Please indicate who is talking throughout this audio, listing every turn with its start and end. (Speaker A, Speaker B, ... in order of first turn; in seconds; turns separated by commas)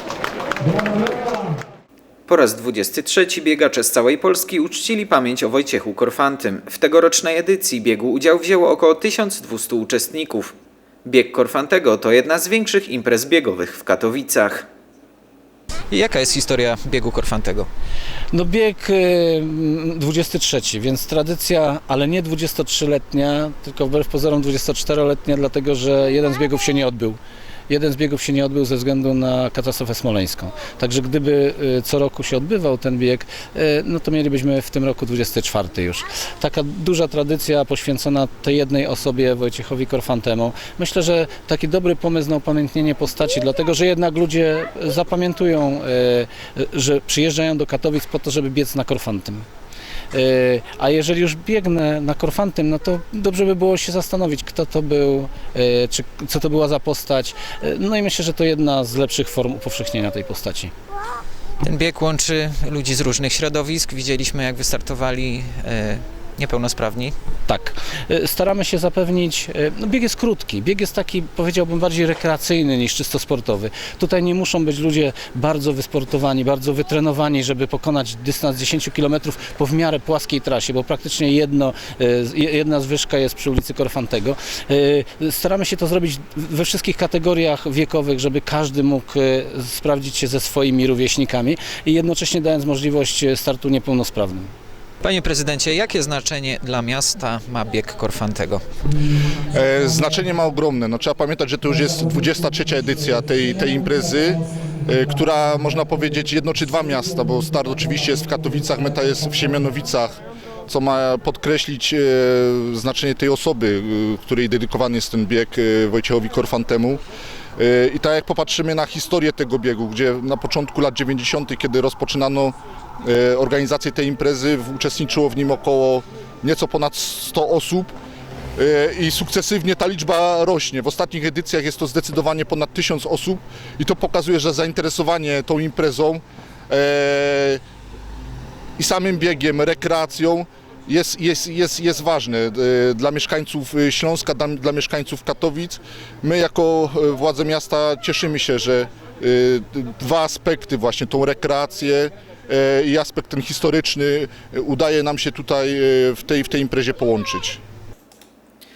Speaker A: 2.3-14.7, Speaker B: 15.9-17.7, Speaker C: 18.3-49.4, Speaker C: 50.1-60.7, Speaker B: 61.6-67.1, Speaker C: 67.5-94.5, Speaker B: 95.0-98.6, Speaker D: 99.5-117.0, Speaker D: 117.6-127.9, Speaker D: 128.6-137.6, Speaker D: 138.8-157.6